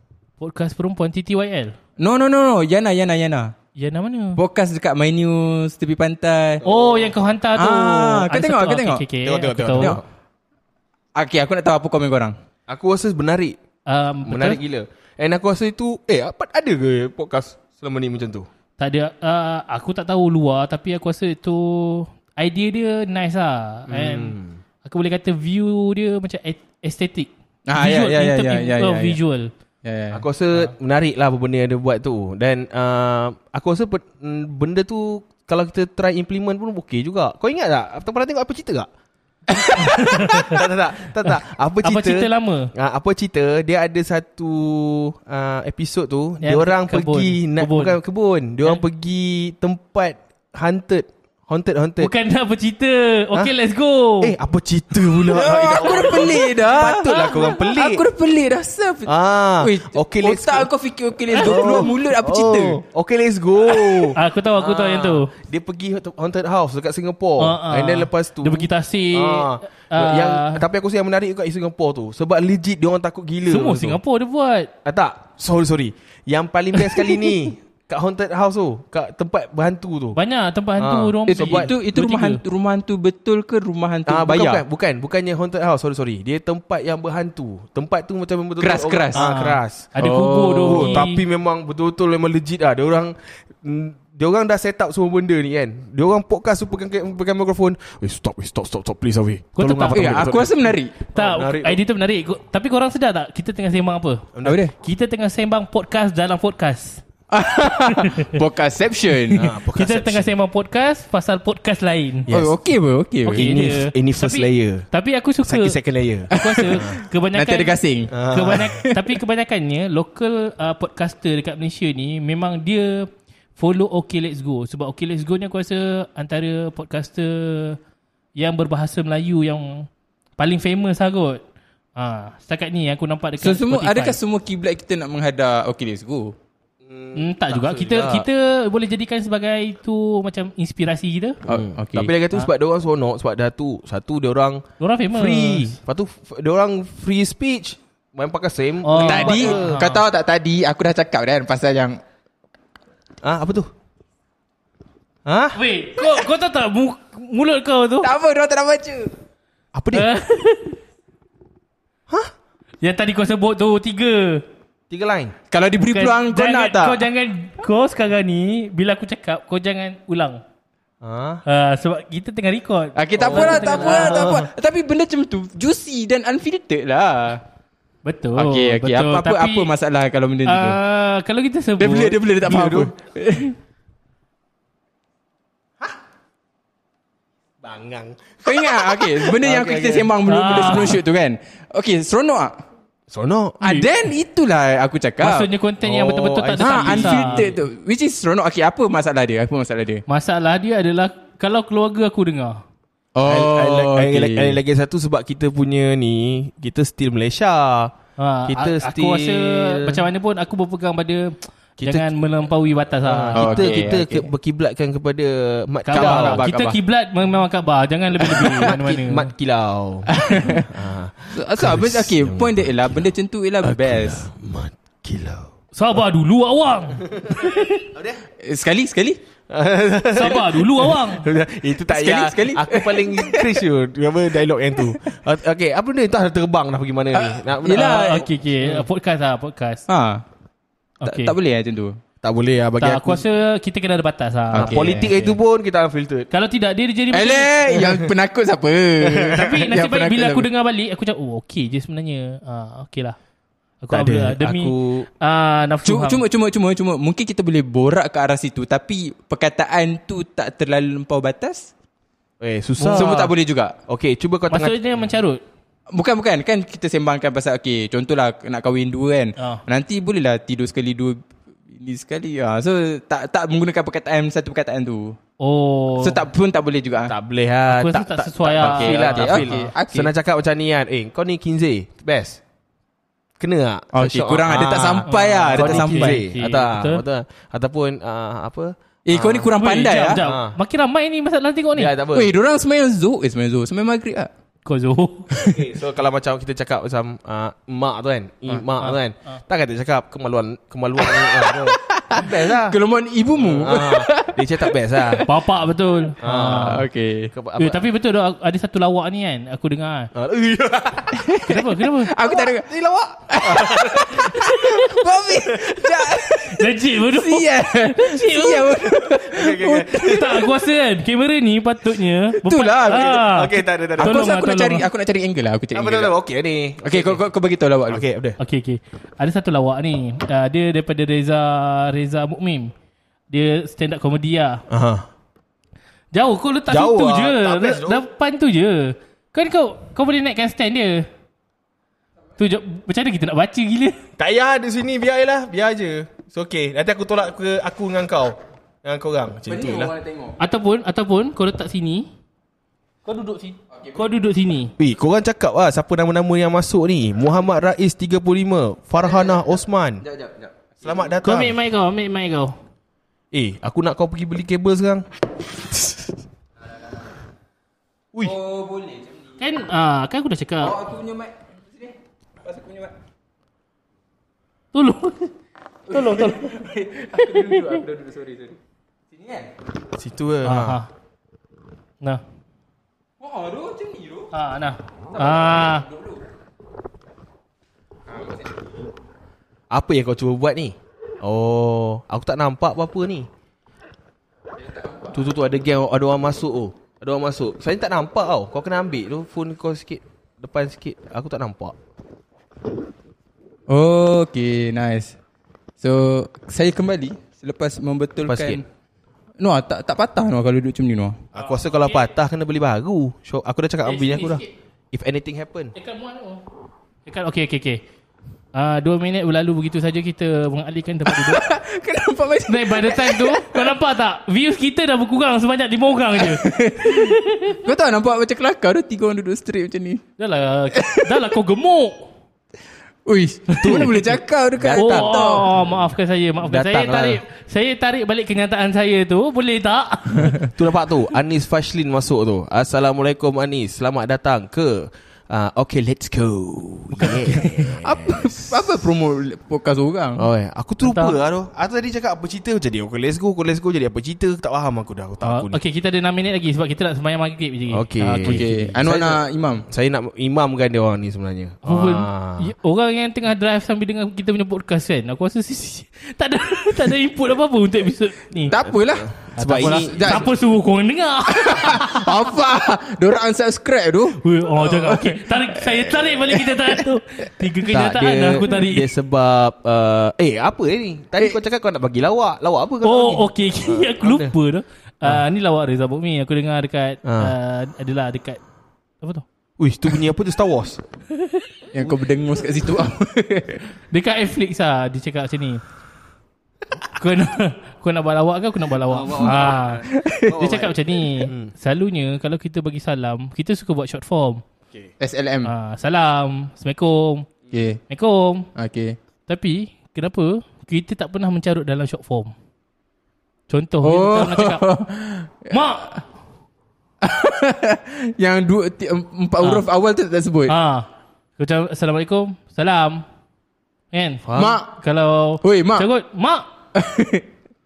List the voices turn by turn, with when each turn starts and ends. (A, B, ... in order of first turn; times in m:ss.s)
0:00.4-0:01.8 A
0:02.0-0:03.5 B
0:03.8-0:04.4 A
0:04.4-0:06.6 B
0:06.6-0:07.1 C
0:06.6-0:10.0 A
0:07.6-0:09.0 B
0:09.2-0:10.0 C
0:11.2-0:12.4 B
0:12.7-0:13.6 C
0:13.9-0:14.6 A
0:14.2-0:18.5 C
0:18.8-0:29.5 A
0:23.9-0:24.6 C
0:27.7-0:29.2 B
0:29.8-0:30.2 B
0:30.1-0:38.9 C
0:39.5-0:40.2 B
0:39.7-0:40.6 A
0:40.4-0:52.1 C
0:41.8-0:42.7 A
0:46.4-0:48.0 A
0:52.0-0:54.3 A
0:54.2-0:58.0 C
0:55.3-1:02.8 B
0:55.8-0:56.3 A
0:59.1-1:00.7 C
1:01.4-1:02.0 A
1:01.4-1:14.0 C
1:03.7-1:05.3 A
1:07.4-1:10.6 A
1:13.5-1:14.7 A
1:14.8-1:20.2 C
1:20.2-1:22.4 A
1:20.8-1:21.7 C
1:21.3-1:24.6 B
1:24.1-1:29.9 C
1:28.6-1:29.3 B
1:29.1-1:31.2 A
1:30.0-1:31.0 B
1:30.7-1:40.5 C
1:39.6-1:40.2 A
1:39.9-1:40.9 B
1:41.1-1:41.8 C
1:41.1-1:47.0 A
1:44.4-1:44.6 C
1:44.4-1:44.7 B
1:47.3-1:49.5 B
1:47.9-1:48.4 A
1:49.3-1:50.3 C
1:49.8-1:52.3 A
1:52.3-1:52.6 C
1:52.3-1:53.5 B
1:53.3-1:55.8 A
1:53.3-1:54.9 C
1:55.5-1:57.0 C
1:56.3-1:57.8 A
1:56.3-1:59.1 B
1:58.1-1:58.8 C
1:58.3-2:07.8 A
2:08.4-2:09.9 A
2:10.4-2:11.4 A
2:12.0-2:14.2 A
2:13.4-2:16.3 B
2:16.8-2:18.3 C
2:17.2-2:21.4 A
2:21.5-2:22.1 B
2:21.5-2:29.8 C
2:24.8-2:25.8 A
2:28.8-2:30.0 A
2:29.0-2:32.0 B
2:33.2-2:33.7 C
2:35.3-2:35.6 C
2:35.6-2:38.1 A
2:38.0-2:39.1 B
2:39.7-2:40.1 C
2:39.9-2:40.8 A
2:42.8-2:44.4 A
2:44.9-2:45.4 C
2:45.5-2:47.0 B
2:45.9-2:50.4 A
2:51.0-2:51.4 C
2:51.5-2:54.4 A
2:53.0-2:57.4 B
2:53.2-2:54.5 C
2:58.0-2:59.7 A
2:58.4-3:00.8 B
3:00.5-3:02.9 A
3:01.8-3:03.5 B
3:02.5-3:02.9 C
3:07.6-3:10.1 C
3:08.4-3:12.6 B
3:10.3-3:11.0 A
3:13.1-3:13.9 C
3:13.6-3:15.5 B
3:15.2-3:17.5 A
3:15.8-3:17.6 C
3:16.6-3:20.0 B
3:20.1-3:22.6 A
3:23.2-3:24.6 B
3:23.2-3:27.9 C
3:28.2-3:33.9 A
3:28.5-3:30.0 C
3:31.8-3:32.1 C
3:33.0-3:36.5 C
3:33.4-3:34.3 B
3:35.8-3:39.3 A
3:35.9-3:36.8 B
3:38.2-3:42.8 C
3:40.1-3:40.7 B
3:41.3-3:44.2 B
3:43.6-3:45.5 C
3:45.7-3:47.9 A
3:47.0-3:48.2 C
3:48.4-3:49.2 B
3:49.5-3:58.3 C
3:50.1-3:51.3 A
3:51.9-3:53.5 B
3:57.1-3:58.2 B
3:57.7-3:59.9 A
3:59.9-4:00.2 B
4:01.0-4:01.3 A
4:01.1-4:02.0 B
4:02.2-4:03.2 C
4:02.8-4:05.4 A
4:04.5-4:06.3 C
4:04.6-4:05.1 B
4:06.3-4:07.9 A
4:07.1-4:10.5 B
4:07.8-4:08.0 C
4:09.0-4:09.5 C
4:09.2-4:13.2 A
4:13.8-4:16.2 A
4:13.9-4:15.1 C
4:15.8-4:21.7 B
4:22.4-4:23.2 C
4:22.8-4:23.3 A
4:23.0-4:23.8 B
4:23.9-4:24.8 C
4:24.5-4:25.4 A
4:25.9-4:35.2 B
4:35.4-4:36.2 A
4:36.0-4:37.2 B
4:37.1-4:42.4 C
4:37.7-4:39.7 A
4:38.6-4:40.1 B
4:43.4-4:49.5 C
4:43.9-4:46.2 B
4:45.1-4:47.0 A
4:49.1-4:50.2 B
4:49.5-4:51.9 A
4:50.2-4:50.6 C
4:51.8-4:52.3 C
4:52.1-4:54.3 B
4:54.7-4:55.6 A
4:55.4-5:02.8 C
4:58.8-4:59.4 A
5:01.0-5:05.3 B
5:03.4-5:05.2 C
5:05.3-5:06.9 A
5:06.2-5:07.8 C
5:06.2-5:07.3 B
5:07.6-5:10.1 A
5:10.1-5:11.2 C
5:11.1-5:12.7 B
5:11.4-5:12.1 A
5:12.2-5:14.7 C
5:13.3-5:20.5 B
5:14.3-5:15.0 A
5:15.4-5:15.8 C
5:16.4-5:19.0 A
5:19.2-5:20.4 C
5:19.9-5:24.8 A
5:22.4-5:23.2 B
5:22.9-5:24.3 C
5:24.0-5:26.1 B
5:25.7-5:27.2 C
5:26.8-5:28.0 B
5:27.9-5:28.4 C
5:28.4-5:32.7 A
5:33.3-5:34.6 A
5:34.7-5:35.1 C
5:36.1-5:41.1 A
5:36.7-5:38.0 C
5:42.4-5:44.0 A
5:44.2-5:49.9 C
5:49.5-5:50.4 B
5:50.4-5:52.1 A
5:53.1-5:54.7 A
5:53.7-5:54.0 B
5:54.8-6:00.0 C
5:59.1-5:59.4 B
6:00.0-6:01.1 B
6:00.8-6:01.6 C
6:01.2-6:02.6 A
6:03.3-6:06.1 C
6:08.2-6:09.4 B
6:09.4-6:10.8 A
6:10.6-6:12.9 B
6:14.7-6:15.3 A
6:15.9-6:18.6 B
6:15.9-6:17.8 A
6:19.1-6:19.5 B
6:20.0-6:20.8 C
6:20.4-6:20.9 A
6:23.2-6:24.3 B
6:24.3-6:25.9 A
6:25.2-6:26.2 B
6:28.1-6:28.5 B
6:29.7-6:33.3 C
6:34.6-6:35.1 B
6:35.1-6:41.8 C
6:43.7-6:45.2 B
6:45.8-6:48.6 B
6:48.3-6:48.6 C
6:49.4-6:51.2 B
6:51.3-6:55.7 C
6:51.4-6:52.1 A
6:53.8-6:54.5 A
6:55.8-6:56.4 A
6:57.1-6:57.8 A
6:58.5-7:01.5 A
7:01.1-7:03.8 B
7:02.5-7:07.6 A
7:06.2-7:10.0 B
7:10.2-7:12.1 A
7:10.7-7:11.3 B
7:13.1-7:15.4 B
7:13.5-7:14.1 A
7:13.6-7:15.6 C
7:14.8-7:20.4 A
7:16.4-7:17.2 C
7:20.4-7:28.6 C
7:27.0-7:27.6 A
7:27.8-7:30.3 B
7:30.2-7:35.6 C
7:30.8-7:31.2 A
7:35.2-7:38.5 A
7:37.7-7:42.5 C
7:38.2-7:39.6 B
7:41.6-7:48.6 A
7:48.5-7:50.3 B
7:48.6-7:50.3 C
7:49.4-7:52.1 A
7:51.3-7:56.8 B
7:54.2-7:58.9 A
7:57.7-8:04.3 C
8:02.8-8:08.4 A
8:07.0-8:07.3 C
8:09.6-8:10.8 C
8:11.7-8:13.6 B
8:13.9-8:15.6 A
8:16.9-8:24.4 A
8:18.9-8:21.5 C
8:19.9-8:20.4 B
8:25.0-8:25.5 B
8:25.4-8:27.3 A
8:27.5-8:27.8 B
8:27.9-8:28.5 A
8:28.6-8:29.0 B
8:29.3-8:32.3 A
8:33.5-8:34.8 A
8:33.8-8:35.7 B
8:35.5-8:36.0 A
8:37.0-8:40.5 B
8:39.4-8:39.6 A
8:40.5-8:40.9 A
8:41.4-8:43.0 A
8:43.9-8:46.5 A
8:44.2-8:44.6 C
8:44.4-8:44.7 B
8:45.4-8:45.9 B
8:46.8-8:47.3 B